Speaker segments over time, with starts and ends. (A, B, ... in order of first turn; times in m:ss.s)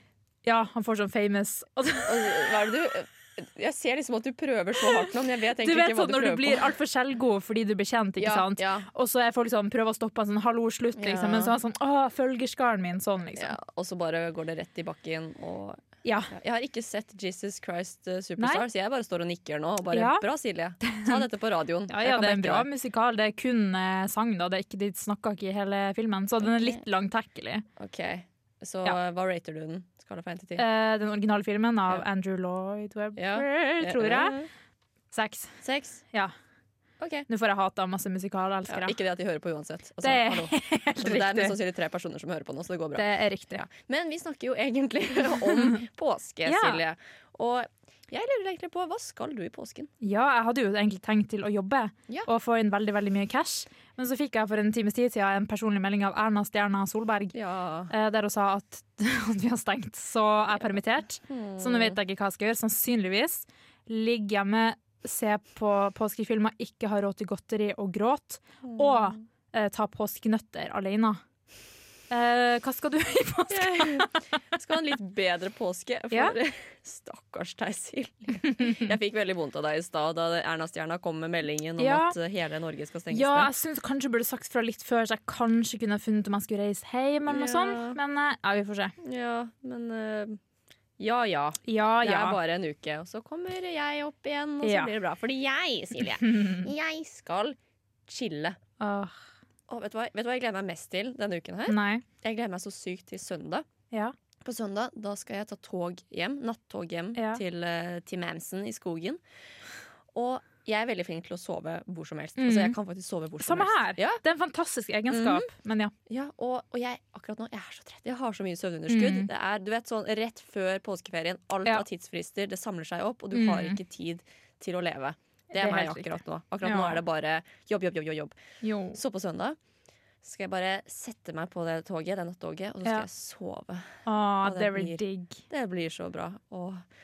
0:00.4-0:02.5 A
0:02.0-0:06.7 B
0:05.6-0:13.6 A
0:08.2-0:08.9 B
0:11.0-0:11.6 B
0:13.4-0:22.7 B
0:16.0-0:16.3 A
0:18.4-0:18.6 A
0:19.9-0:20.3 A
0:20.8-0:21.2 A
0:21.9-0:27.6 A
0:26.4-0:26.8 B
0:27.8-0:30.6 B
0:30.6-0:34.4 A
0:33.2-0:34.5 B
0:35.1-0:35.5 A
0:35.6-0:36.0 B
0:37.0-0:37.3 B
0:37.3-0:39.0 A
0:38.7-0:49.9 B
0:40.0-0:41.6 A
0:43.0-0:43.6 A
0:46.5-0:46.8 A
0:50.0-0:57.3 A
0:57.3-0:57.9 B
0:57.9-1:11.2 A
1:01.2-1:02.0 B
1:08.6-1:09.2 B
1:12.1-1:14.1 A
1:13.5-1:23.5 B
1:18.5-1:18.9 A
1:21.8-1:22.2 A
1:23.1-1:29.0 A
1:27.3-1:28.0 B
1:29.0-1:30.4 B
1:31.0-1:37.6 B
1:31.7-1:32.4 A
1:34.6-1:34.9 A
1:36.2-1:36.7 A
1:38.1-1:38.6 B
1:38.8-1:39.2 A
1:39.7-1:43.7 B
1:41.7-1:42.0 A
1:44.4-1:49.2 B
1:47.2-1:47.4 A
1:50.1-1:54.2 B
1:52.4-1:52.8 A
1:53.4-1:55.9 A
1:55.1-1:55.5 B
1:56.1-2:08.4 B
1:58.9-1:59.3 A
2:03.3-2:03.8 A
2:05.5-2:07.0 A
2:08.6-2:09.0 A
2:08.9-2:09.6 B
2:10.2-2:16.8 B
2:14.1-2:15.4 A